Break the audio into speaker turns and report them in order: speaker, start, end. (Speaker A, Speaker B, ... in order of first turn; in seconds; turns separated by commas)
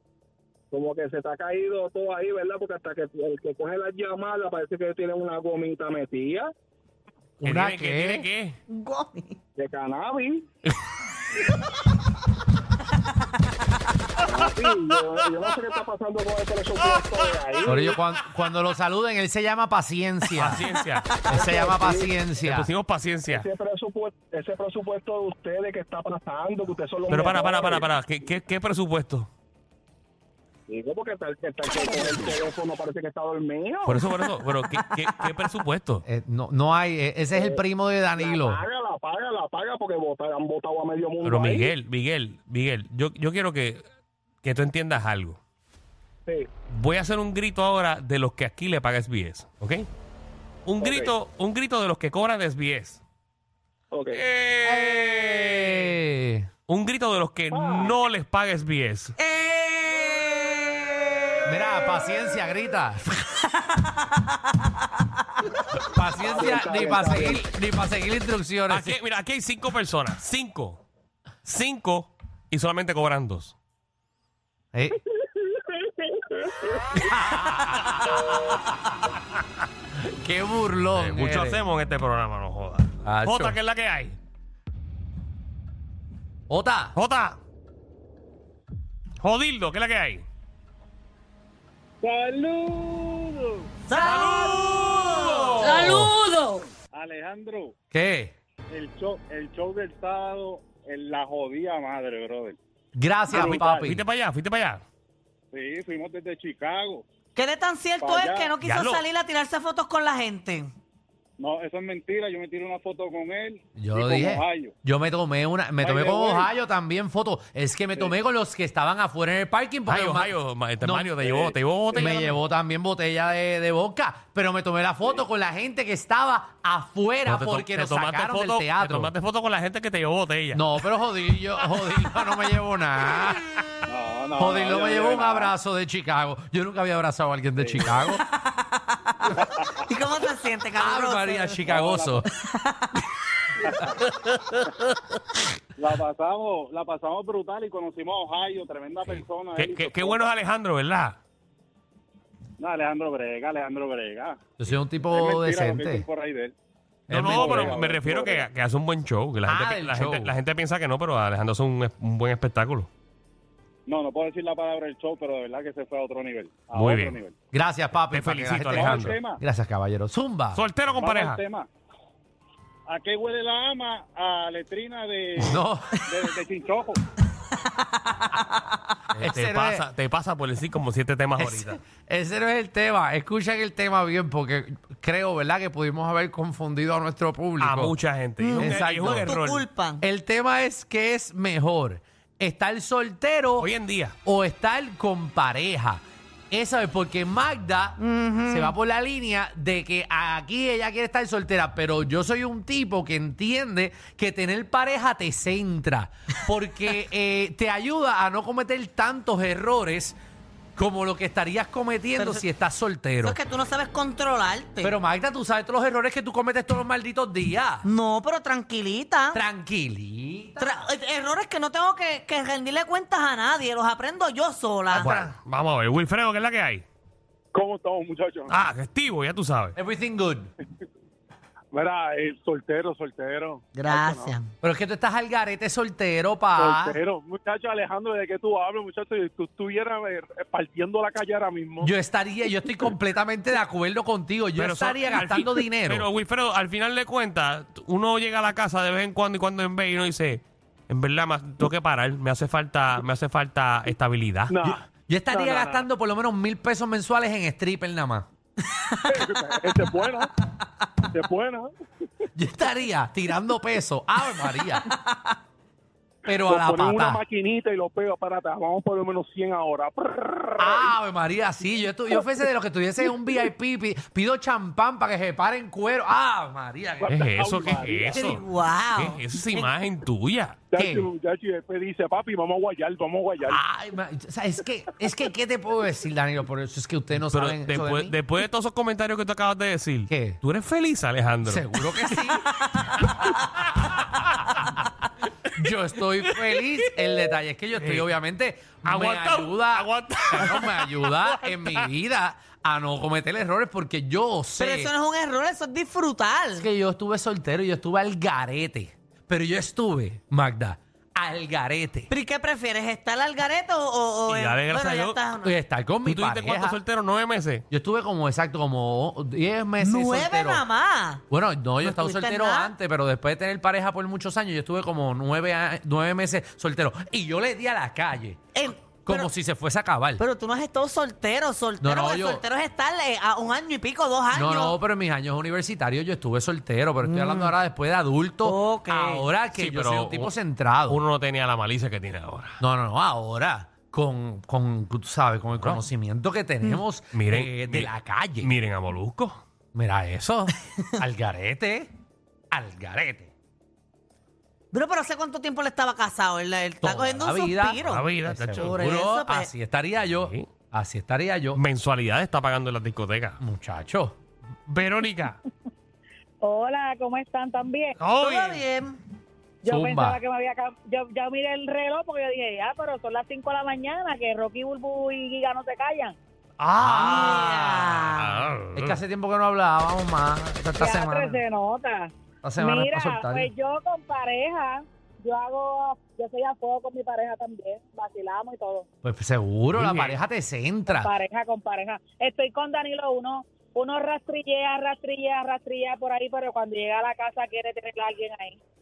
Speaker A: 0.7-6.5, Speaker B: 7.4-8.3, Speaker C: 7.4-8.6, Speaker D: 8.7-9.4, Speaker A: 9.6-10.4, Speaker A: 14.2-17.9, Speaker B: 17.6-20.7, Speaker C: 20.4-21.2, Speaker B: 21.2-22.7, Speaker A: 21.3-22.1, Speaker C: 22.4-23.5, Speaker A: 23.3-27.9, Speaker C: 27.1-29.3, Speaker A: 30.7-34.0, Speaker C: 33.8-36.0, Speaker B: 36.0-38.6, Speaker A: 37.3-37.6, Speaker A: 38.2-41.7, Speaker C: 41.2-43.8, Speaker C: 44.4-45.4, Speaker C: 46.7-49.9, Speaker C: 50.6-53.0, Speaker A: 50.8-51.1, Speaker A: 53.9-54.2, Speaker C: 54.1-55.9, Speaker B: 55.0-56.5, Speaker C: 56.7-59.1, Speaker A: 57.5-57.9, Speaker D: 59.2-61.8, Speaker B: 61.4-63.1, Speaker D: 63.5-64.3, Speaker B: 65.8-69.0, Speaker A: 66.2-67.4, Speaker C: 68.7-70.8, Speaker C: 71.4-73.5, Speaker B: 74.7-75.0, Speaker A: 76.2-77.0, Speaker B: 77.0-78.8, Speaker B: 79.9-81.7, Speaker C: 80.9-84.2, Speaker B: 83.0-83.6, Speaker B: 86.5-87.0, Speaker C: 86.9-87.4, Speaker C: 89.2-90.2, Speaker E: 92.0-93.7, Speaker D: 93.9-96.6, Speaker C: 94.0-95.8, Speaker E: 94.5-96.0, Speaker B: 95.8-96.1, Speaker E: 96.9-97.7, Speaker B: 97.9-98.3, Speaker E: 98.7-102.6, Speaker B: 102.9-104.0, Speaker E: 103.3-103.9, Speaker C: 103.3-104.8, Speaker E: 105.5-107.0, Speaker D: 107.3-110.7, Speaker E: 108.0-108.5, Speaker C: 108.6-109.0, Speaker E: 111.4-114.7, Speaker B: 113.8-129.1, Speaker E: 115.8-116.5, Speaker C: 119.9-122.3, Speaker C: 127.3-130.6, Speaker B: 130.5-133.4, Speaker E: 133.9-135.5, Speaker B: 134.4-138.2, Speaker E: 137.6-137.9, Speaker D: 138.1-141.7, Speaker E: 139.4-139.7, Speaker B: 140.8-142.3, Speaker E: 141.7-142.2, Speaker D: 142.2-143.0, Speaker E: 143.6-144.0, Speaker E: 145.8-150.3, Speaker C: 149.0-151.2, Speaker E: 152.6-154.3, Speaker B: 154.6-156.1, Speaker E: 155.1-156.5, Speaker B: 157.1-157.9, Speaker C: 157.1-162.9, Speaker E: 157.2-158.5, Speaker B: 159.4-160.3, Speaker E: 163.9-167.3, Speaker C: 166.7-167.2, Speaker B: 167.5-170.6, Speaker C: 168.1-169.2, Speaker E: 168.7-169.4, Speaker C: 170.5-171.4, Speaker E: 170.9-171.7, Speaker E: 172.9-177.0, Speaker B: 175.4-176.0, Speaker D: 177.6-178.6, Speaker C: 179.1-181.8, Speaker B: 179.2-179.8, Speaker B: 181.3-188.0, Speaker C: 187.6-189.6, Speaker D: 188.4-190.0, Speaker B: 188.5-189.3, Speaker B: 190.0-193.7, Speaker C: 193.6-194.1, Speaker B: 194.2-210.2, Speaker D: 198.0-198.7, Speaker B: 210.8-213.4, Speaker D: 212.2-212.4, Speaker D: 213.2-214.9, Speaker B: 214.8-217.8, Speaker D: 217.8-219.4, Speaker B: 219.3-220.8, Speaker D: 220.6-225.3, Speaker C: 224.9-226.8, Speaker E: 227.5-228.6, Speaker C: 228.5-229.8, Speaker B: 229.8-230.5, Speaker E: 231.7-234.3, Speaker D: 233.7-234.5, Speaker B: 234.6-237.0, Speaker E: 236.6-241.7, Speaker B: 241.8-246.1, Speaker C: 244.6-254.6, Speaker B: 254.6-258.3, Speaker E: 255.4-255.8, Speaker E: 259.1-260.3, Speaker E: 261.1-261.7, Speaker B: 262.4-264.9, Speaker D: 264.4-265.3, Speaker B: 266.2-267.2, Speaker E: 266.5-270.9, Speaker B: 270.6-277.9, Speaker C: 277.0-280.6, Speaker E: 277.7-278.4, Speaker D: 278.1-279.7, Speaker B: 280.7-281.1, Speaker E: 281.0-283.6, Speaker B: 283.4-288.1, Speaker C: 287.1-294.7, Speaker B: 290.1-290.4, Speaker B: 291.4-293.8, Speaker B: 295.5-304.9, Speaker C: 297.7-298.1, Speaker C: 298.8-301.9, Speaker D: 304.6-306.7, Speaker B: 306.5-312.1, Speaker D: 312.1-315.5, Speaker C: 314.3-315.2, Speaker B: 315.4-316.8, Speaker C: 316.0-317.6, Speaker B: 317.7-320.6, Speaker D: 319.8-321.2, Speaker B: 321.3-328.4, Speaker D: 321.8-322.7, Speaker D: 328.5-329.3, Speaker B: 329.0-330.2, Speaker D: 330.2-334.8, Speaker B: 331.8-332.4, Speaker B: 334.3-341.0, Speaker D: 337.0-337.5, Speaker D: 338.4-339.3, Speaker C: 339.5-340.3, Speaker C: 340.9-342.6, Speaker B: 342.6-348.5, Speaker C: 345.5-345.8, Speaker C: 347.1-349.4, Speaker B: 349.7-351.9, Speaker B: 352.5-353.3, Speaker D: 354.7-359.5, Speaker B: 356.8-361.6, Speaker C: 357.8-358.8, Speaker C: 360.1-360.5, Speaker C: 361.5-363.4, Speaker B: 363.4-364.1, Speaker C: 364.7-365.4, Speaker F: 366.4-367.9, Speaker C: 368.0-368.6, Speaker D: 368.2-369.0, Speaker F: 369.6-376.1, Speaker B: 369.7-370.2, Speaker C: 376.6-379.0, Speaker B: 376.8-377.6, Speaker D: 376.8-378.4, Speaker B: 378.7-381.4, Speaker F: 380.8-388.9, Speaker B: 382.4-383.5, Speaker B: 389.0-391.1, Speaker C: 389.7-390.2, Speaker F: 390.9-398.6